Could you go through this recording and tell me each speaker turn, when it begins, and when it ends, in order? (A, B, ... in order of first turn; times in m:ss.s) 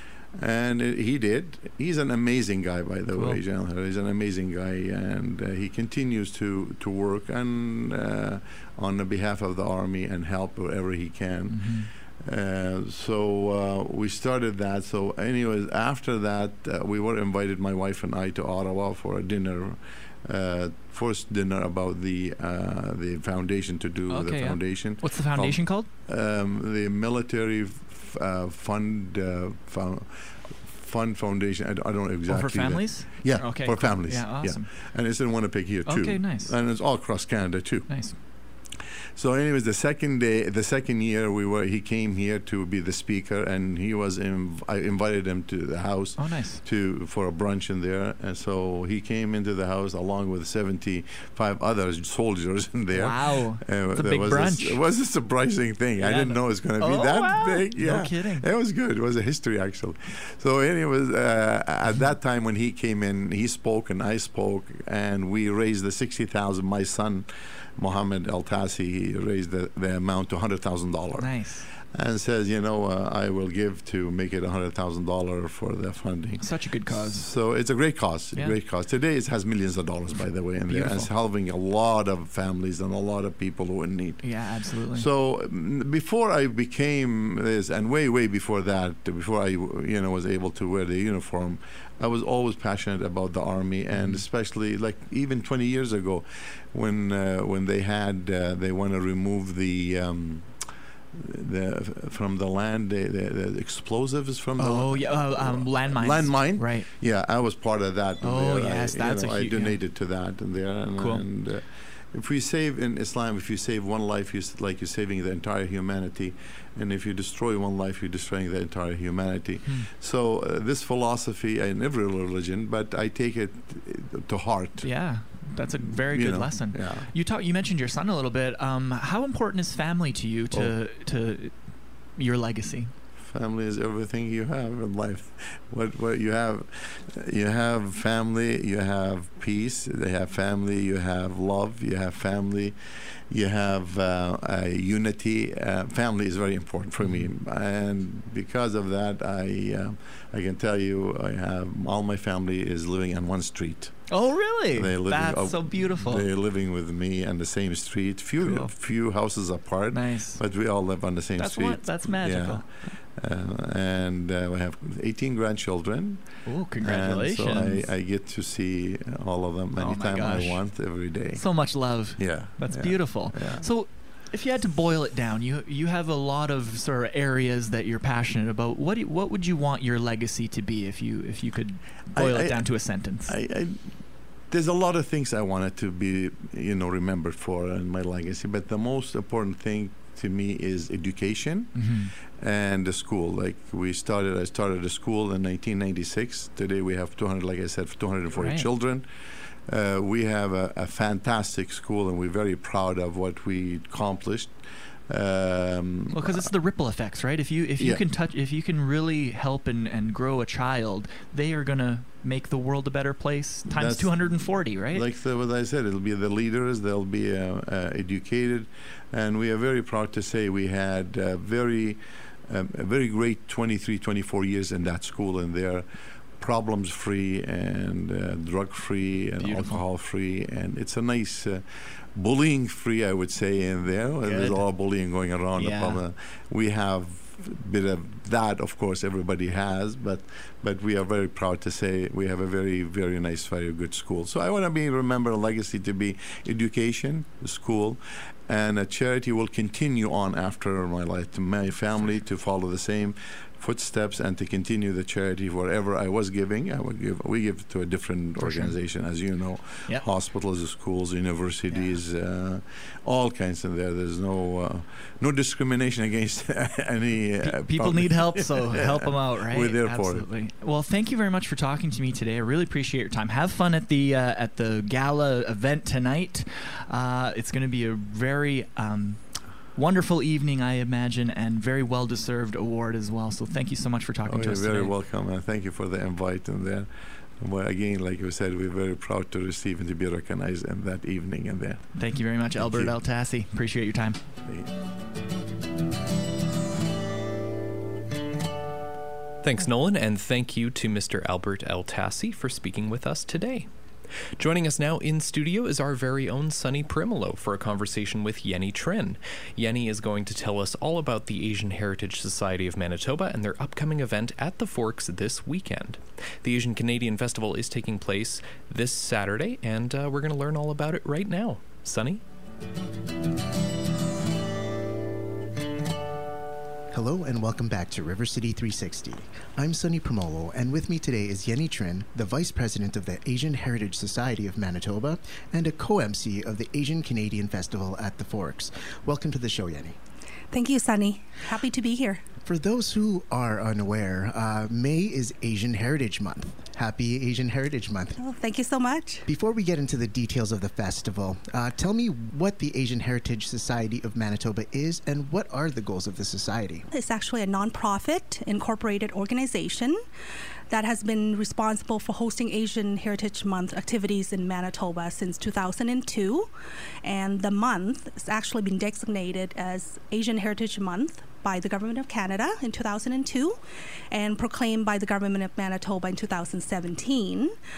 0:00.4-0:38.1 A
0:03.2-0:03.4 B
0:11.5-0:11.9 B
0:24.1-0:25.9 B
0:32.3-0:34.7 B
0:35.9-0:36.5 B
0:37.9-0:38.2 B
0:39.2-1:07.3 A
0:46.2-0:46.6 B
0:52.9-0:54.8 B
0:56.0-0:58.5 B
1:07.8-1:40.5 A
1:11.2-1:11.7 B
1:16.4-1:17.3 B
1:20.7-1:21.1 B
1:24.2-1:25.1 B
1:33.9-1:34.2 B
1:41.2-2:04.9 A
1:44.6-1:46.9 B
1:48.2-1:49.8 B
1:51.0-1:51.2 B
2:04.8-2:11.6 B
2:05.9-2:07.1 A
2:12.2-2:12.9 B
2:13.3-2:22.8 A
2:23.3-2:34.1 A
2:27.0-2:27.3 B
2:34.1-2:36.3 B
2:34.7-2:53.6 A
2:38.4-2:38.7 B
2:39.9-2:40.4 B
2:41.4-2:43.0 B
2:46.5-2:47.9 B
2:49.8-2:50.6 B
2:51.3-3:03.4 B
3:02.1-3:04.0 A
3:04.5-3:19.0 A
3:11.8-3:12.1 B
3:18.3-3:18.7 B
3:19.7-3:24.5 A
3:25.1-3:26.5 A
3:26.1-3:35.1 B
3:33.7-3:45.8 A
3:46.4-3:51.6 A
3:49.4-3:49.8 B
3:52.2-4:30.3 A
3:54.2-3:54.6 B
3:55.6-3:56.0 B
4:18.4-4:18.8 B
4:21.7-4:22.0 B
4:27.4-4:39.2 B
4:39.8-4:44.9 B
4:44.3-4:46.9 A
4:47.4-4:51.9 A
4:52.0-4:54.2 B
4:52.6-4:53.0 A
4:59.4-5:03.7 C
5:04.4-5:22.2 C
5:26.9-5:40.0 D
5:40.5-5:42.2 E
5:42.5-5:48.2 D
5:48.2-5:49.2 E
5:49.3-5:56.9 D
5:56.9-6:00.0 E
6:00.7-6:06.5 E
6:07.0-6:13.6 E
6:14.1-6:17.6 E